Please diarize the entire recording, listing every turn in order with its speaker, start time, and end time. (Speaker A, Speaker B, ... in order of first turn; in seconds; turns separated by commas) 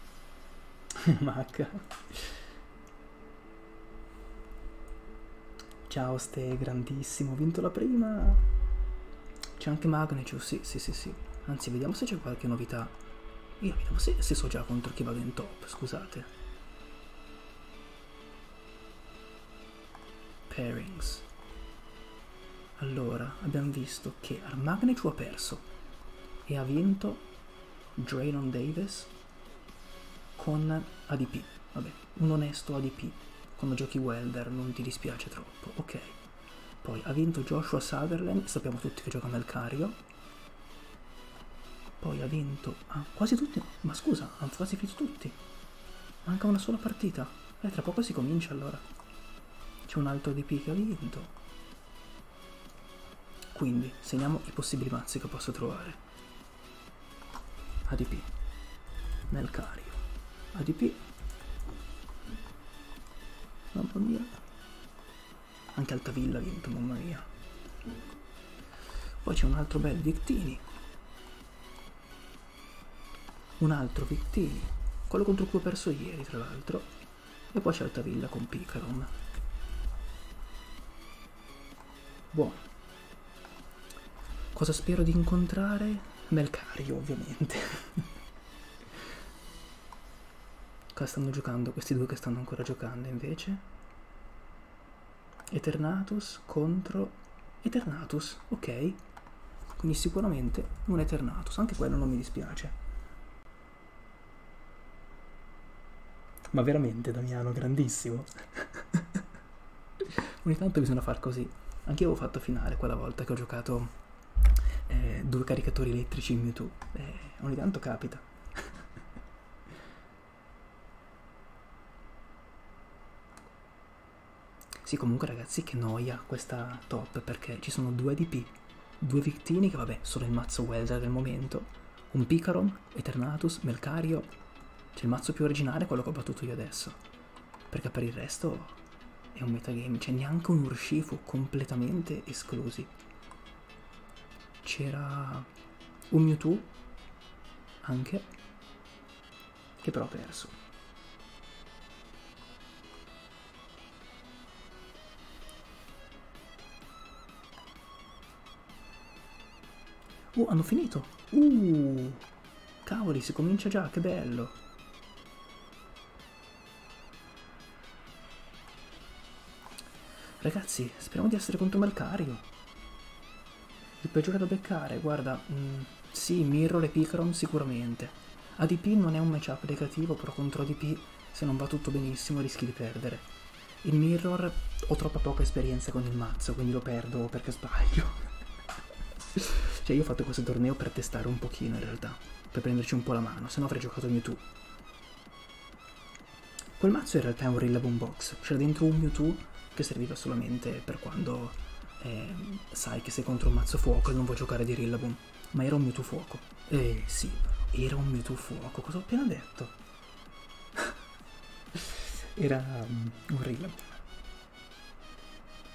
Speaker A: 0.9-2.5, Speaker A: 5.9-8.5, Speaker A: 9.6-13.0, Speaker A: 13.6-16.3, Speaker A: 20.5-21.3, Speaker A: 22.8-25.7, Speaker A: 26.5-27.3, Speaker A: 28.0-29.1, Speaker A: 30.4-36.2, Speaker A: 36.8-40.0, Speaker A: 42.0-45.4, Speaker A: 46.2-48.8, Speaker A: 49.9-51.4, Speaker A: 53.5-56.0, Speaker A: 57.9-58.3, Speaker A: 59.3-61.0, Speaker A: 63.7-64.4, Speaker A: 65.7-67.3, Speaker A: 69.2-70.6, Speaker A: 73.6-76.9, Speaker A: 77.5-79.1, Speaker A: 82.3-82.6, Speaker A: 84.5-88.1, Speaker A: 90.9-93.7, Speaker A: 95.5-99.0, Speaker A: 99.8-102.8, Speaker A: 106.5-109.2, Speaker A: 110.0-114.0, Speaker A: 114.8-118.8, Speaker A: 124.8-134.3, Speaker A: 134.9-137.0, Speaker A: 137.7-138.8, Speaker A: 139.3-142.9, Speaker A: 144.6-145.5, Speaker A: 146.1-146.7, Speaker A: 147.8-148.3, Speaker A: 149.8-150.6, Speaker A: 160.3-162.2, Speaker A: 162.8-164.6, Speaker A: 170.4-172.4, Speaker A: 174.0-183.3, Speaker A: 183.8-188.3, Speaker A: 189.3-194.4, Speaker A: 196.8-209.8, Speaker A: 211.7-214.0